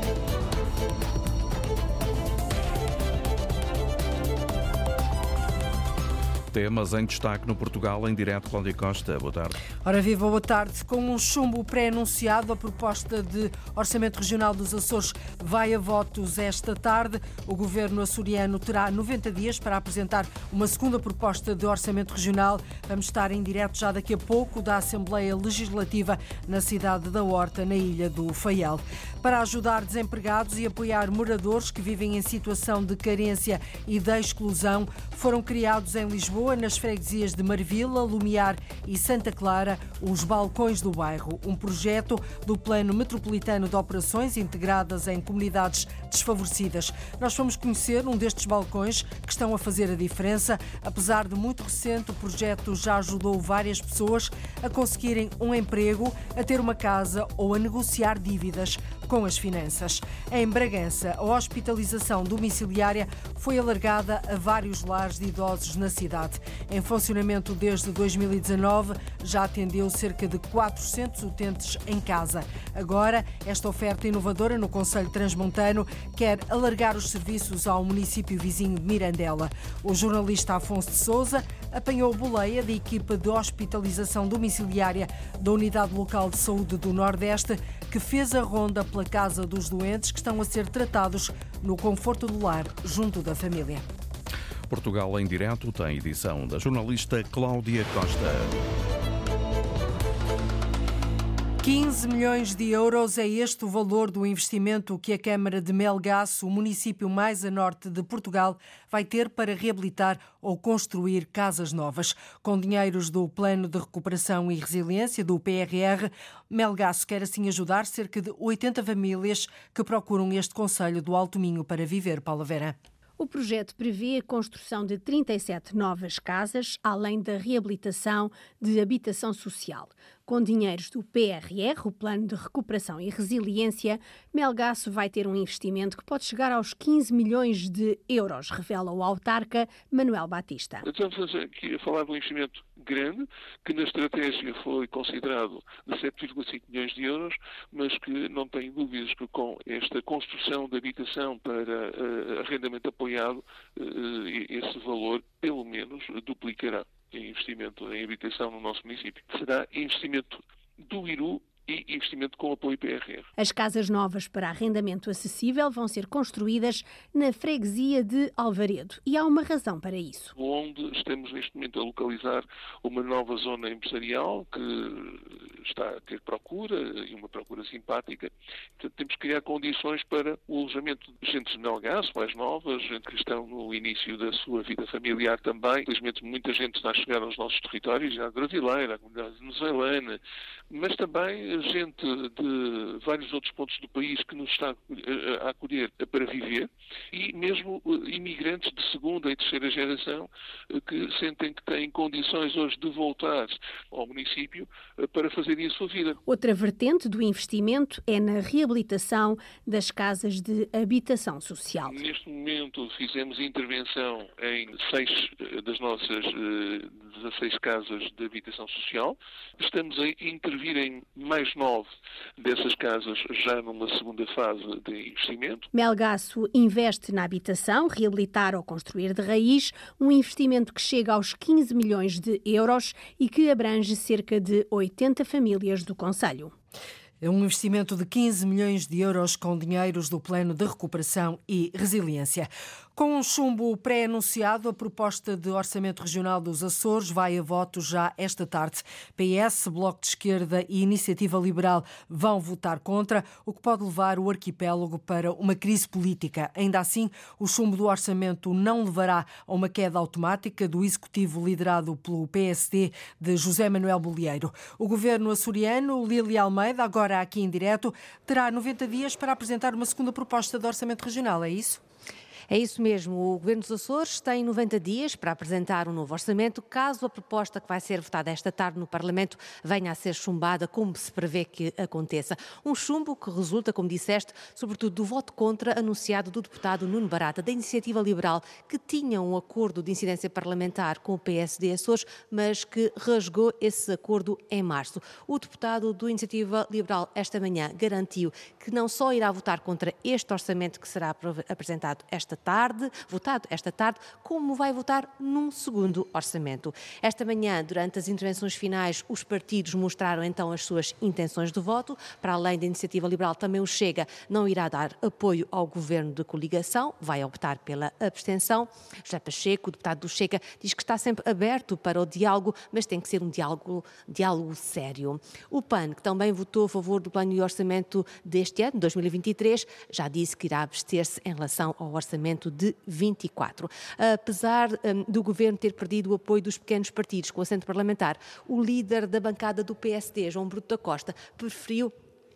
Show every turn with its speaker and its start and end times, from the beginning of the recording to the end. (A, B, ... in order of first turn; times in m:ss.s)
0:06.5-0:09.5 A
0:09.8-1:33.8 B
1:34.7-1:38.6 A
1:41.6-2:02.8 B
2:03.2-2:20.8 C
2:20.8-2:43.3 D
2:43.4-2:50.3 C
2:50.3-3:10.2 D
3:10.7-3:26.2 D
3:26.2-3:32.0 C
3:31.8-3:45.7 D
3:45.7-3:56.5 C
3:57.2-4:31.8 B
4:32.5-5:41.9 E